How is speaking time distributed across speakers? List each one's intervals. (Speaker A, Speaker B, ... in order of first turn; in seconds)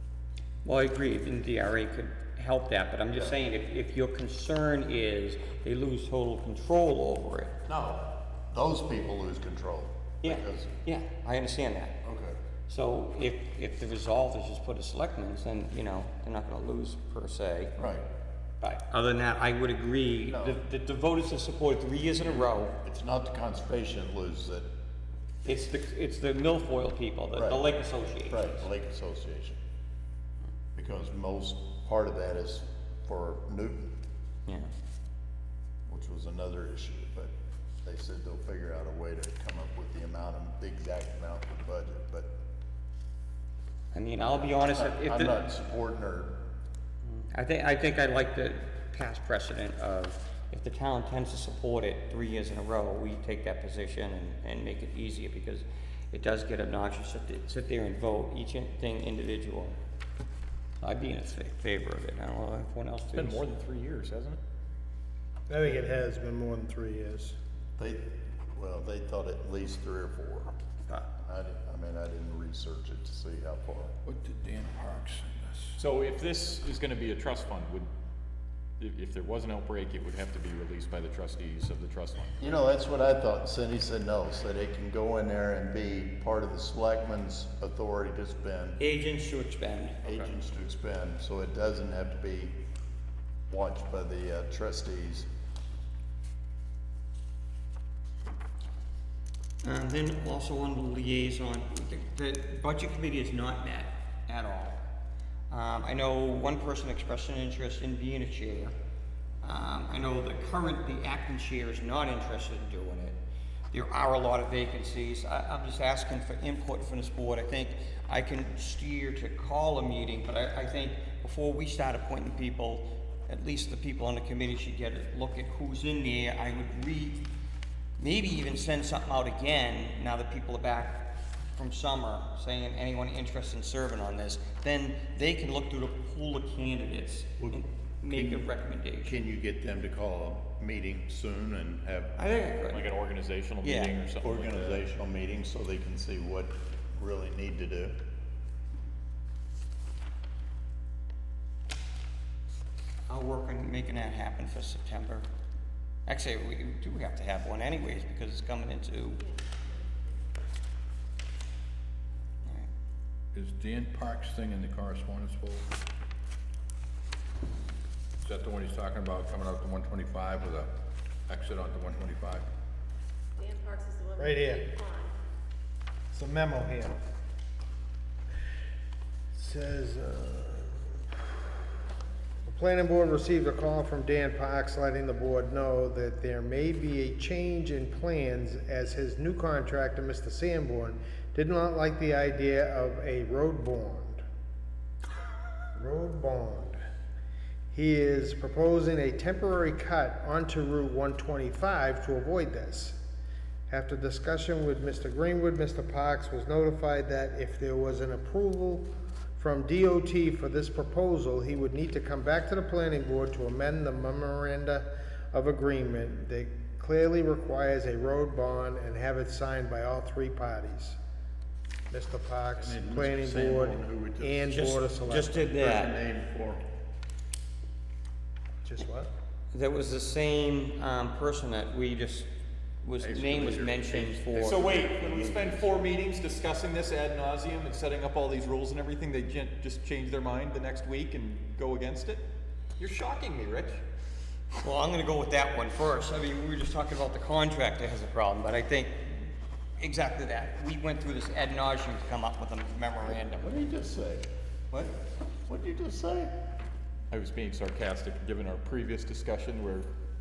Speaker A: 0.6-7.5, 10.2-12.0, 12.7-17.7, 18.6-22.7, 25.4-28.6, 43.9-45.3, 47.3-59.8, 60.8-63.4, 88.8-90.2, 99.6-104.8, 105.5-108.7, 109.4-113.2, 113.7-127.2, 128.0-139.1, 142.2-142.9, 143.6-143.9, 153.1-155.3, 156.1-159.2, 162.4-162.7, 224.5-225.9, 229.5-232.3, 232.8-234.7, 244.6-253.5
Speaker B: 7.7-10.8, 12.0-12.4, 17.8-18.1, 20.3-20.6, 22.2-24.7, 27.3-27.6, 28.3-29.6, 30.7-33.9, 35.9-37.3, 37.8-42.3, 44.4-46.4, 67.8-70.5, 71.2-73.9, 82.4-88.8, 90.0-92.6, 93.5-95.3, 137.4-138.5, 139.0-142.2, 144.2-148.0, 222.6-224.5, 225.3-226.7, 233.0-235.9, 253.1-254.3, 255.5-256.3
Speaker C: 63.1-64.4, 75.8-77.9, 78.8-82.4, 142.7-144.8, 234.4-242.3, 242.8-243.8, 257.1-259.9
Speaker D: 65.5-67.3, 174.2-174.7, 176.1-177.0, 179.3-181.3, 182.5-194.2, 195.7-196.8, 197.7-203.0, 203.7-208.8, 209.3-221.0, 221.9-225.4, 228.6-229.1
Speaker E: 74.0-75.8, 163.3-165.7, 168.2-170.7, 171.3-172.5
Speaker F: 159.3-159.6, 173.4-175.1